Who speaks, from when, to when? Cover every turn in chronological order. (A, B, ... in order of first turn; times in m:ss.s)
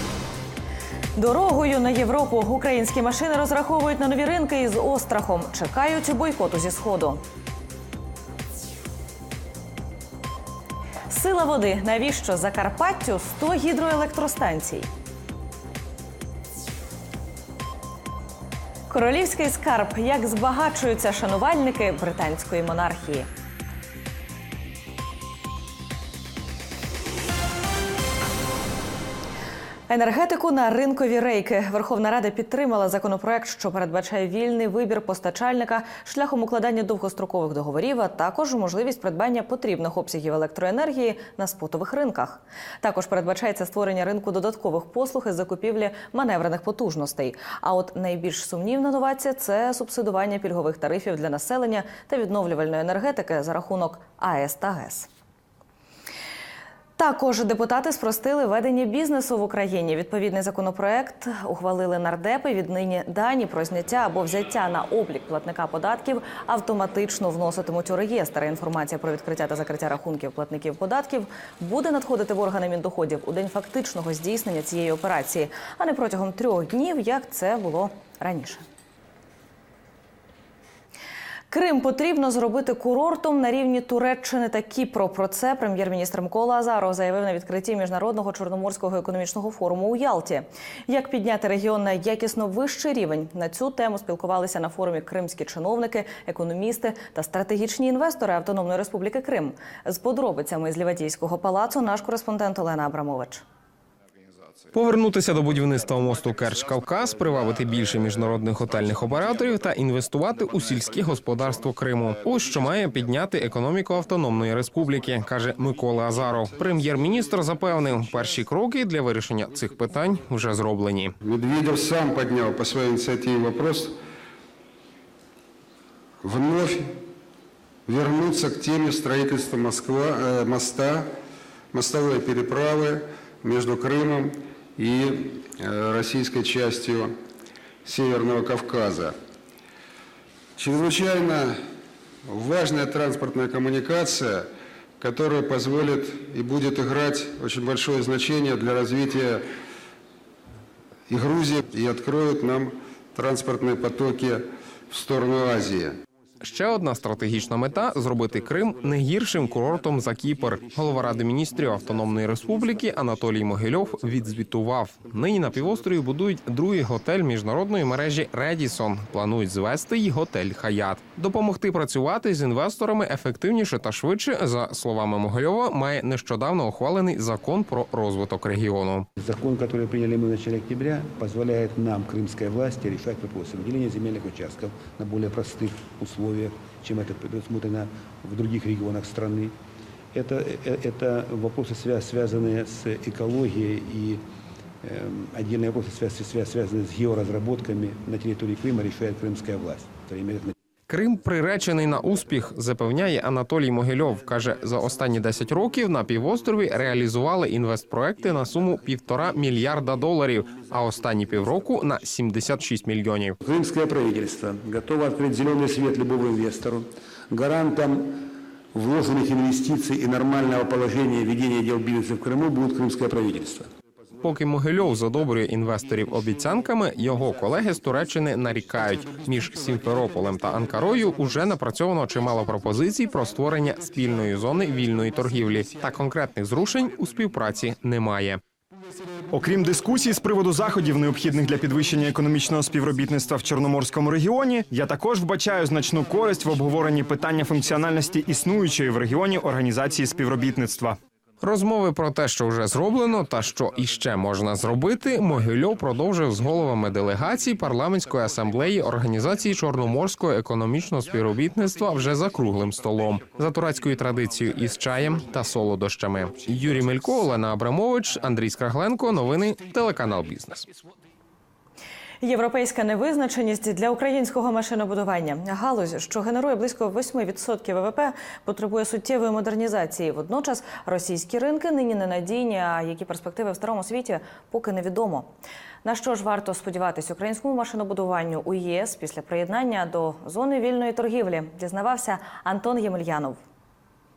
0:01.2-0:07.2 A
0:11.1-0:14.9 A
0:18.9-0:23.3 A
0:29.9-0:55.1 A
0:57.0-1:18.6 A
1:21.5-1:43.4 A
1:44.7-2:01.1 B
2:01.2-2:03.9 C
2:06.2-2:06.9 C
2:07.9-2:11.1 C
2:11.7-2:17.1 C
2:17.8-2:19.1 C
2:20.6-2:21.6 C
2:22.3-2:24.5 C
2:25.0-2:29.4 C
2:31.1-2:36.0 C
2:36.4-2:59.0 B
2:59.2-3:09.6 D
3:10.1-3:14.2 D
3:14.8-3:20.5 D
3:20.9-3:33.4 B
3:33.4-3:38.2 D
3:38.7-3:43.7 D
3:44.2-3:58.4 B
3:59.3-4:11.0 E
4:11.4-4:30.7 B
4:32.2-4:45.3 A
4:45.8-4:53.4 A